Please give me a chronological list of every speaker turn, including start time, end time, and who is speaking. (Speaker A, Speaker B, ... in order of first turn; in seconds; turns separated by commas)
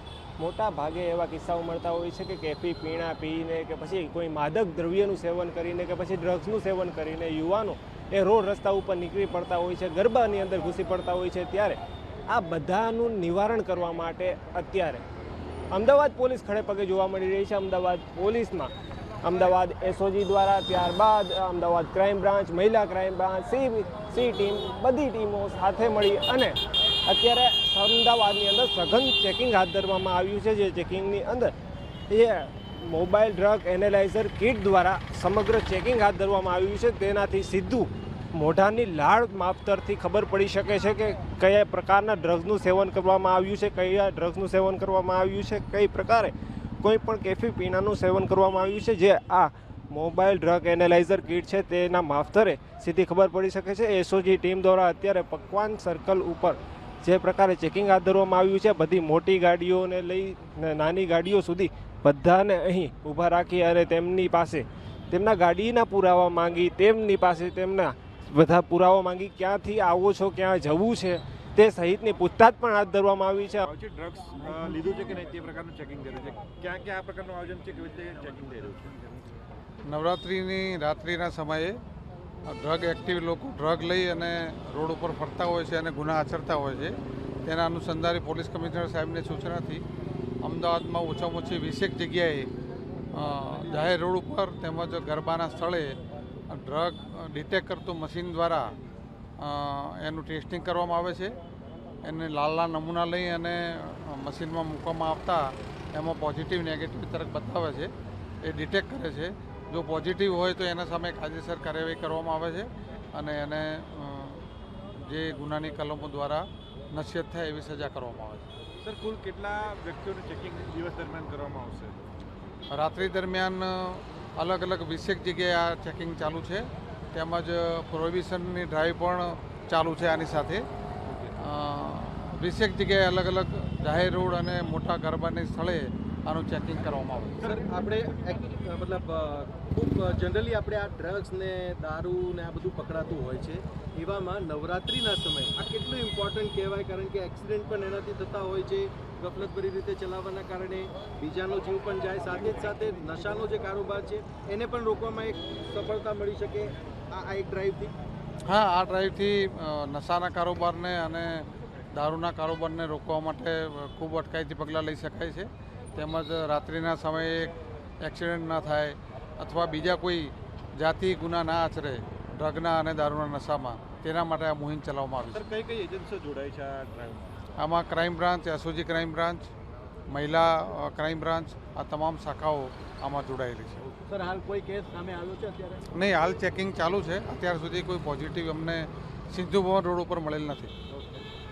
Speaker A: 0.4-15.0, Speaker A: 15.7-18.7, Speaker A: 19.2-31.5, Speaker A: 32.1-73.7, Speaker B: 73.6-79.0, Speaker C: 79.8-81.8, Speaker C: 82.5-89.8, Speaker C: 90.4-92.5, Speaker C: 93.1-96.0, Speaker C: 96.5-98.7, Speaker C: 99.4-101.3, Speaker C: 102.0-107.9, Speaker C: 108.4-114.4, Speaker C: 115.0-118.5, Speaker B: 118.8-122.0, Speaker C: 122.7-130.6, Speaker B: 131.1-131.3, Speaker C: 131.4-137.7, Speaker D: 137.5-157.9, Speaker C: 158.5-175.5, Speaker B: 175.3-177.4, Speaker C: 177.6-179.5, Speaker C: 180.1-183.8, Speaker D: 184.1-185.8, Speaker C: 185.9-190.7